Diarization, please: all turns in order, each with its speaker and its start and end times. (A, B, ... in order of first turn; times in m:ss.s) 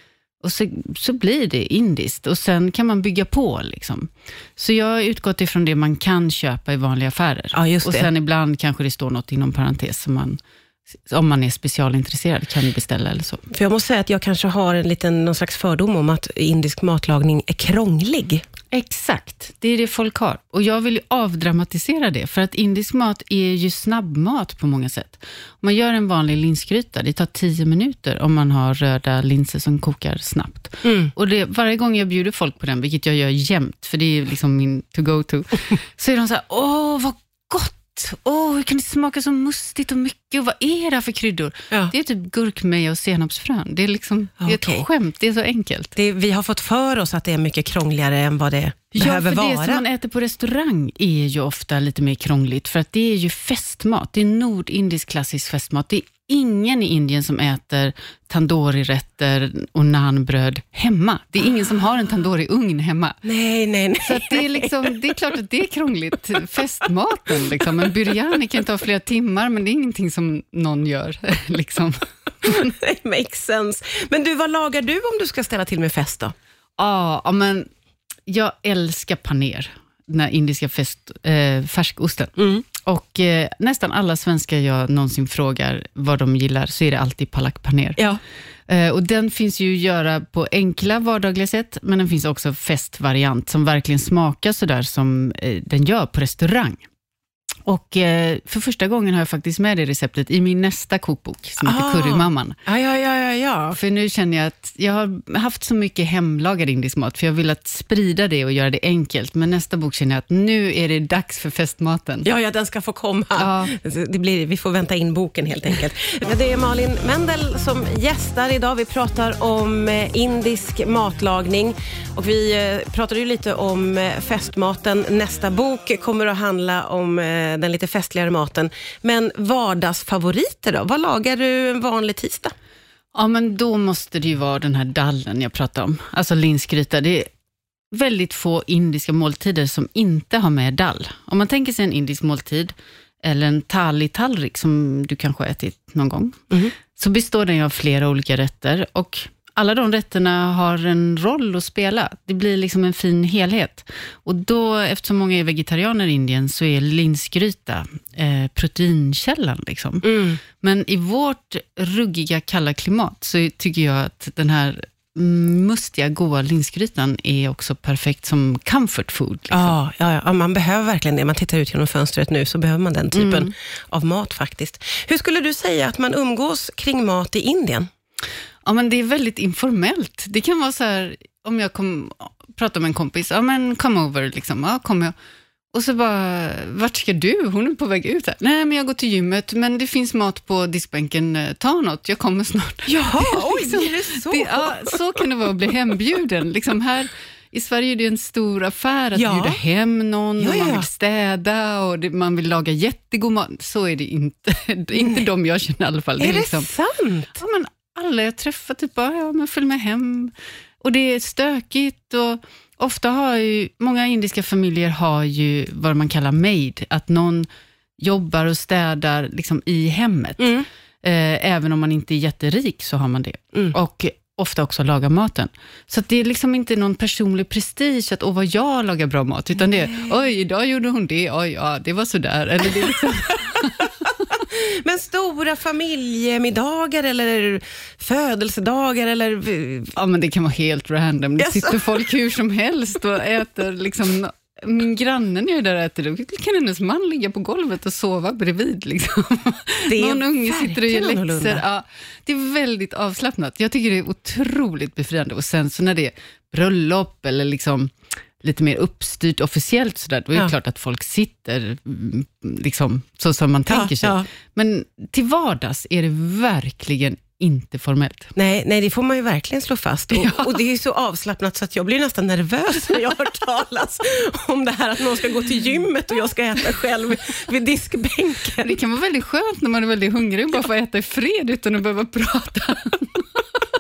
0:00.4-0:10.4 A
0:07.6-0:08.1 B
0:11.1-0:13.4 A
0:13.5-0:18.4 B
0:18.7-0:45.9 A
0:30.8-0:31.1 B
0:44.4-0:44.9 B
0:46.0-0:49.8 B
0:49.0-1:03.2 A
1:03.2-1:04.7 B
1:04.0-1:12.7 A
1:12.4-1:16.4 B
1:16.8-1:17.7 A
1:18.3-1:28.0 A
1:22.4-1:22.6 B
1:28.7-1:36.8 A
1:37.7-1:42.6 A
1:41.6-1:43.8 B
1:43.7-1:52.3 A
1:52.2-2:12.6 B
1:53.4-1:53.7 A
2:13.2-2:17.3 A
2:17.9-2:26.4 A
2:26.9-2:49.7 A
2:40.0-2:40.4 B
2:49.5-2:57.9 B
2:53.1-2:53.5 A
2:58.6-3:05.1 A
3:05.7-3:26.7 A
3:12.9-3:15.0 B
3:19.2-3:19.6 B
3:20.4-3:20.9 B
3:26.2-3:27.4 B
3:27.4-3:37.5 A
3:38.0-3:54.1 A
3:49.9-3:50.1 B
3:53.6-4:00.0 B
4:00.0-4:28.3 A
4:01.4-4:01.8 B
4:09.9-4:11.6 B
4:23.7-4:24.3 B
4:28.4-4:38.8 B
4:30.1-4:30.6 A
4:38.6-4:43.6 A